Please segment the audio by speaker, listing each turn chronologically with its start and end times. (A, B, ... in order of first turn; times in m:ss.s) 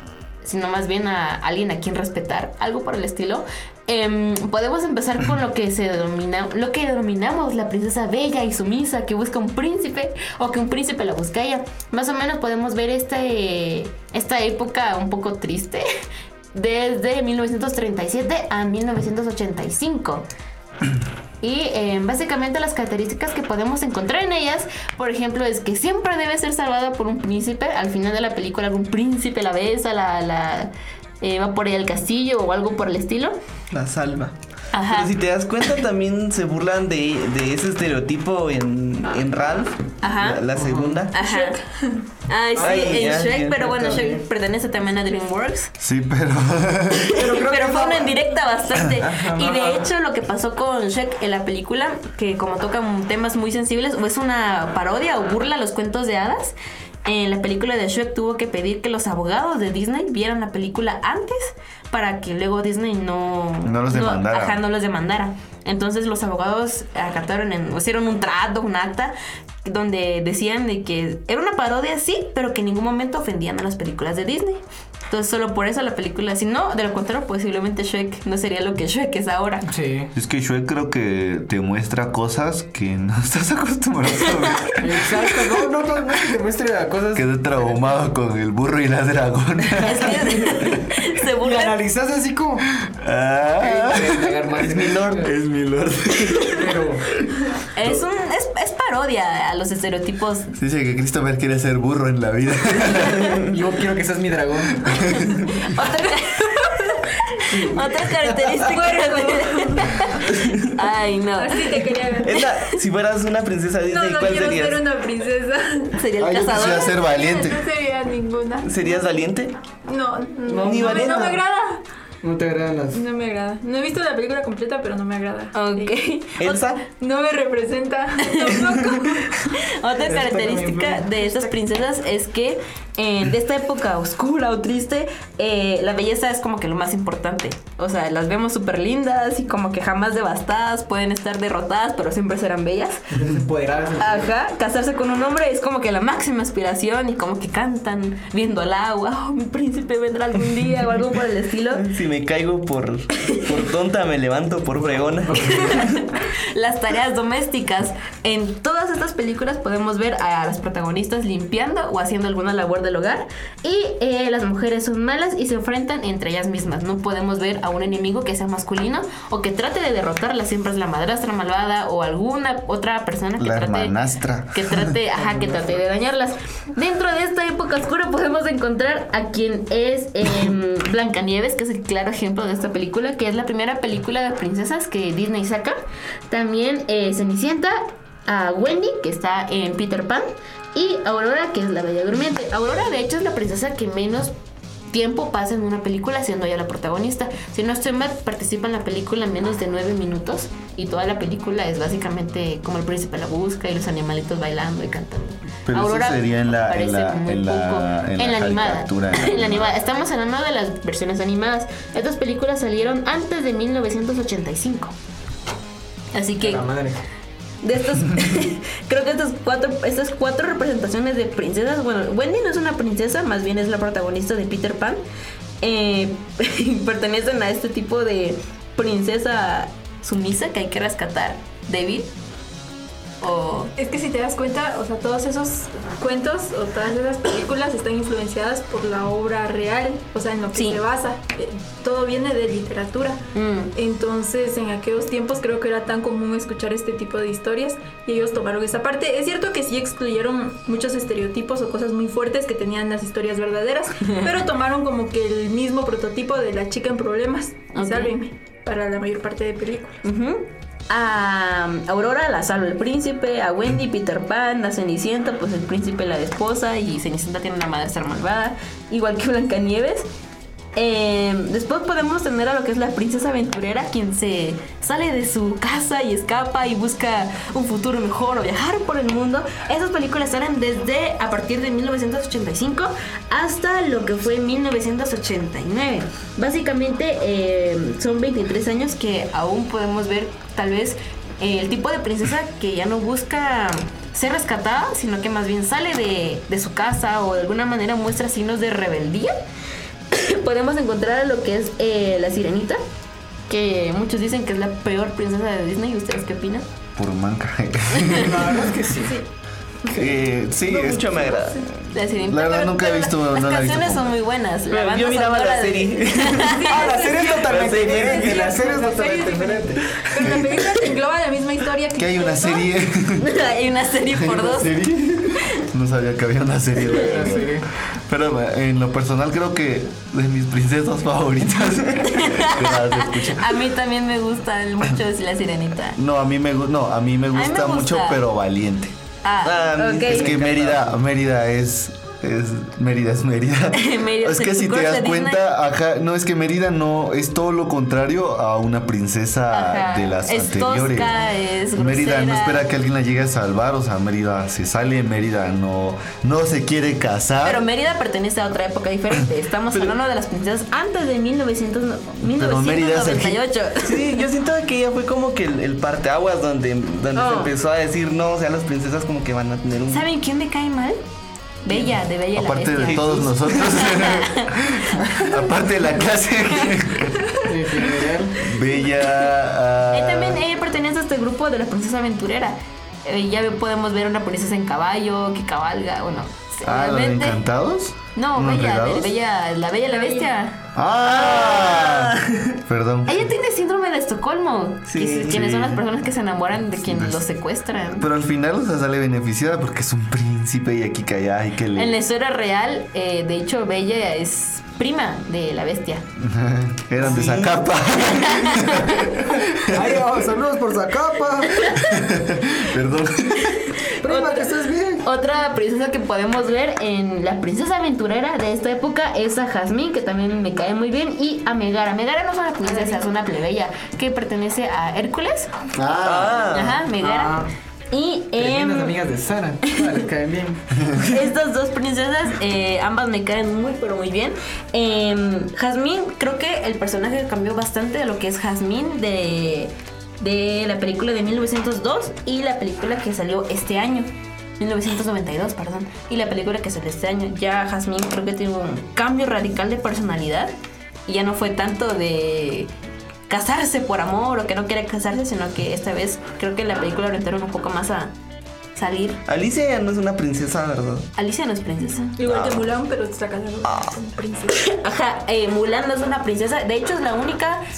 0:00.4-0:15.8 A
0:16.5-0:20.3 A
0:21.4-0:33.4 A
0:33.7-0:34.4 B
0:34.7-0:35.1 A
0:34.9-0:41.1 B
0:40.0-0:40.4 A
0:40.6-0:41.0 C
0:41.1-0:41.6 A
0:41.1-0:42.0 D
0:42.3-0:45.7 A
0:42.6-0:44.2 C
0:42.6-0:43.6 B
0:45.8-0:47.2 E
0:47.1-0:48.2 C
0:47.3-1:09.1 A
0:49.0-0:49.9 C
1:03.6-1:04.6 E
1:09.6-1:19.7 A
1:19.6-1:20.1 C
1:20.1-1:25.6 E
1:24.8-1:27.7 C
1:27.1-1:30.6 E
1:29.8-1:31.8 A
1:30.1-1:32.7 C
1:32.8-1:36.7 E
1:33.6-1:35.3 C
1:36.5-1:37.2 C
1:37.7-1:40.5 A
1:40.6-1:43.4 E
1:43.5-1:45.1 C
1:44.9-1:45.3 E
1:45.4-1:46.7 A
1:45.9-1:46.7 D
1:47.4-1:52.4 A
1:48.7-1:50.4 D
1:51.4-1:52.3 D
1:52.2-1:54.8 B
1:53.9-1:56.0 D
1:55.9-1:57.0 A
1:56.2-1:57.6 E
1:56.6-1:59.1 D
1:58.6-1:59.5 B
1:59.9-2:01.8 D
2:00.5-2:01.3 C
2:00.6-2:01.4 B
2:02.2-2:03.0 C
2:02.9-2:09.5 D
2:05.5-2:06.6 A
2:06.4-2:06.8 B
2:08.2-2:08.6 A
2:09.7-2:23.2 A
2:10.0-2:11.1 C
2:23.1-2:24.3 C
2:24.0-2:31.9 A
2:31.8-2:35.8 B
2:35.3-2:35.8 C
2:35.4-2:54.0 A
2:53.4-2:54.9 E
2:54.5-3:05.8 A
2:55.1-2:55.8 C
3:06.3-3:14.3 A
3:14.9-3:34.9 A
3:25.7-3:29.8 E
3:36.1-3:36.6 A
3:36.4-3:37.0 C
3:37.6-3:45.0 A
3:45.6-3:52.1 A
3:53.2-3:53.7 A
3:53.8-4:03.2 D
4:00.5-4:00.8 A
4:03.4-4:03.7 A
4:03.7-4:20.0 D
4:17.8-4:18.1 A
4:20.0-4:30.1 A
4:30.8-4:59.3 A
5:00.1-5:02.8 A
5:03.5-5:06.6 A
5:07.0-5:08.7 E
5:08.2-5:09.2 C
5:08.9-5:09.2 D
5:09.9-5:11.3 E
5:10.6-5:11.6 B
5:11.3-5:11.6 D
5:11.9-5:16.8 A
5:12.3-5:14.1 E
5:14.7-5:18.5 B
5:16.6-5:22.7 D
5:16.7-5:19.9 C
5:20.2-5:20.6 E
5:21.9-5:23.3 E
5:23.2-5:24.8 A
5:24.1-5:33.6 E
5:26.9-5:27.7 C
5:32.0-5:36.0 A
5:36.0-5:39.0 E
5:37.3-5:38.2 A
5:39.2-5:40.3 A
5:39.4-5:40.9 B
5:40.0-5:51.2 E
5:43.7-5:45.4 A
5:49.5-5:52.7 A
5:51.7-5:57.6 E
5:57.4-6:04.3 A
6:02.2-6:03.4 E
6:03.8-6:10.1 B
6:07.1-6:07.5 A
6:09.9-6:11.0 A
6:11.6-6:15.0 A
6:11.7-6:11.9 C
6:12.3-6:20.4 E
6:12.8-6:13.3 B
6:17.4-6:18.4 C
6:19.9-6:27.4 A
6:26.6-6:29.1 E
6:28.2-6:30.6 A
6:29.8-6:30.3 D
6:30.8-6:33.3 E
6:31.1-6:32.6 B
6:33.1-6:38.1 A
6:34.9-6:35.4 B
6:35.2-6:35.9 E
6:36.7-6:37.3 E
6:37.9-6:42.0 E
6:41.8-6:46.0 A
6:46.2-6:50.0 E
6:47.0-6:47.4 C
6:47.1-6:47.5 B
6:48.4-6:49.1 A
6:49.4-6:51.9 C
6:51.9-6:53.7 E
6:54.0-6:55.0 C
6:54.0-6:54.5 A
6:55.0-7:05.5 A
7:02.6-7:03.0 D
7:05.8-7:06.6 E
7:06.0-7:06.8 B
7:06.5-7:08.9 A
7:07.0-7:07.5 C
7:08.4-7:10.8 C
7:11.0-7:30.5 A
7:31.1-7:32.7 A
7:33.3-7:38.1 A
7:38.8-7:39.2 A
7:39.3-7:41.1 B
7:41.2-7:42.1 A
7:41.8-7:44.6 D
7:42.3-7:42.6 E
7:44.6-7:47.6 A